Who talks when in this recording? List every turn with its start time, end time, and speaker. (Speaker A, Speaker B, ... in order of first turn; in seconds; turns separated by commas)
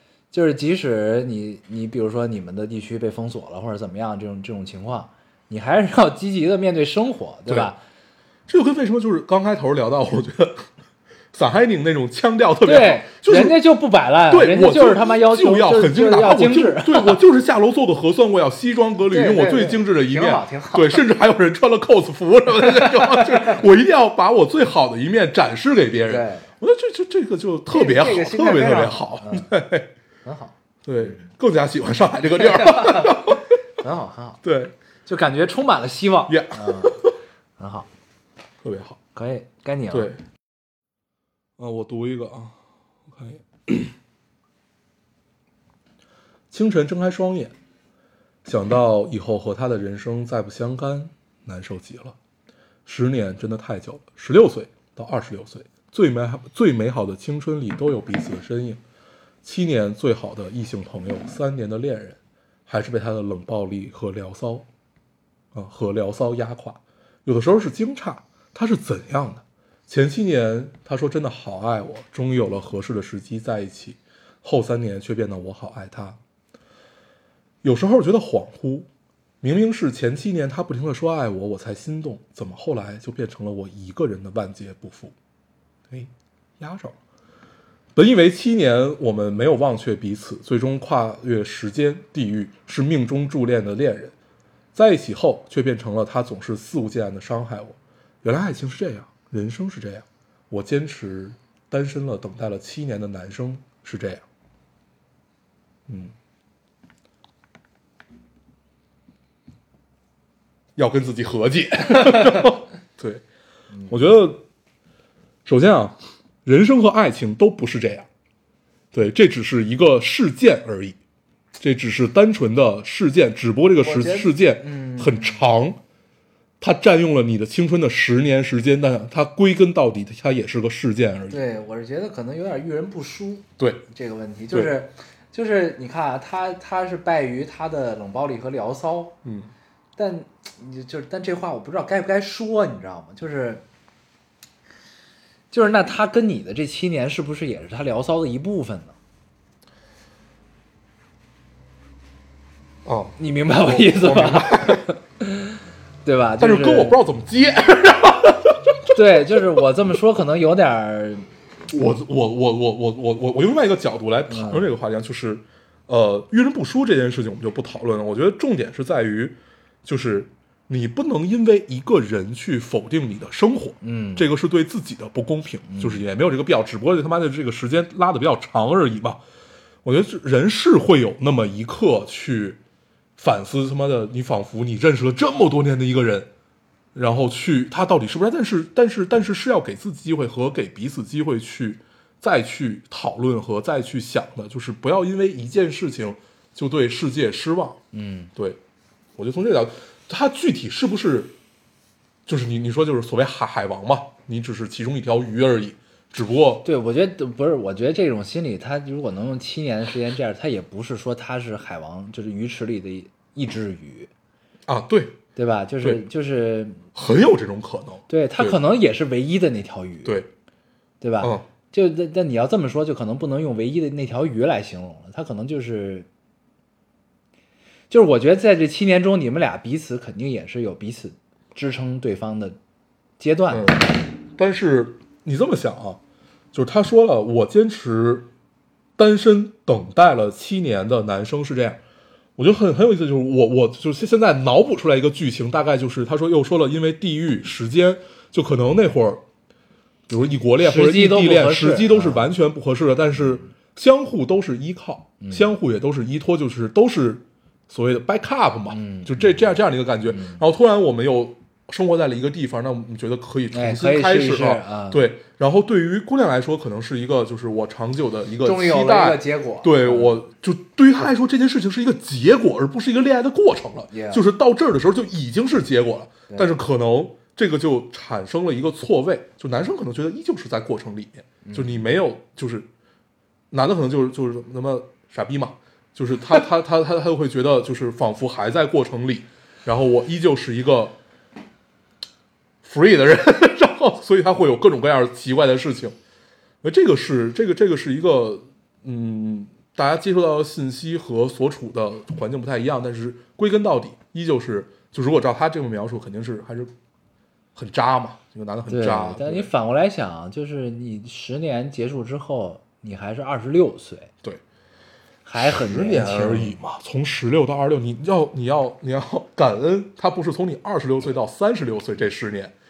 Speaker A: 0.3-7.8, Speaker B: 7.5-7.7, Speaker B: 8.5-10.7, Speaker B: 11.3-13.6, Speaker A: 12.6-17.2, Speaker B: 14.3-29.9, Speaker A: 19.1-21.1, Speaker A: 22.6-23.6, Speaker A: 26.1-26.5, Speaker A: 27.7-29.5, Speaker A: 30.2-31.3, Speaker B: 30.9-33.4, Speaker A: 32.4-34.4, Speaker B: 34.4-34.7, Speaker A: 35.1-37.9, Speaker B: 36.3-37.1, Speaker B: 38.6-39.0, Speaker A: 39.1-40.1, Speaker B: 39.9-40.2, Speaker B: 41.6-43.9, Speaker B: 46.5-47.5, Speaker B: 48.5-52.2, Speaker B: 52.9-58.8, Speaker B: 59.4-64.7, Speaker B: 65.5-76.2, Speaker B: 77.6-78.9, Speaker B: 79.4-85.1, Speaker B: 85.9-87.0, Speaker B: 88.0-94.2, Speaker B: 94.8-104.2, Speaker B: 105.9-106.1, Speaker B: 110.8-113.2, Speaker B: 113.9-114.4, Speaker B: 115.5-118.1, Speaker B: 118.9-121.0, Speaker B: 121.6-125.8, Speaker A: 123.8-125.5, Speaker B: 126.6-131.4, Speaker A: 131.3-139.2, Speaker B: 139.2-139.5, Speaker A: 140.0-143.6, Speaker A: 145.5-149.0, Speaker B: 152.8-154.9, Speaker A: 153.2-157.0, Speaker B: 156.4-159.4, Speaker A: 158.9-161.3, Speaker B: 161.7-179.2, Speaker A: 164.3-164.7, Speaker A: 173.8-174.3, Speaker A: 175.7-176.0, Speaker B: 179.8-182.6, Speaker B: 183.2-186.3, Speaker B: 186.9-197.8, Speaker A: 197.9-198.3, Speaker B: 199.2-201.3, Speaker B: 202.3-206.7, Speaker A: 206.7-214.1, Speaker B: 214.7-215.2, Speaker A: 215.4-216.8, Speaker B: 216.9-218.6, Speaker A: 218.1-220.2, Speaker B: 220.1-220.3, Speaker A: 221.0-226.1, Speaker B: 221.2-221.5, Speaker A: 227.9-232.6, Speaker A: 233.2-233.9, Speaker B: 233.5-236.0, Speaker B: 236.5-238.3, Speaker B: 239.0-241.8, Speaker B: 242.4-249.2, Speaker B: 250.1-282.7, Speaker A: 250.6-252.3, Speaker A: 255.2-255.5, Speaker A: 258.7-259.4, Speaker A: 260.1-260.4, Speaker A: 263.5-265.0, Speaker A: 268.4-270.1, Speaker A: 273.9-274.2, Speaker A: 281.4-281.8, Speaker B: 283.5-291.0, Speaker B: 292.6-296.0, Speaker B: 296.6-306.7, Speaker B: 307.6-309.5, Speaker A: 308.7-314.1, Speaker A: 315.2-316.6, Speaker B: 315.4-322.5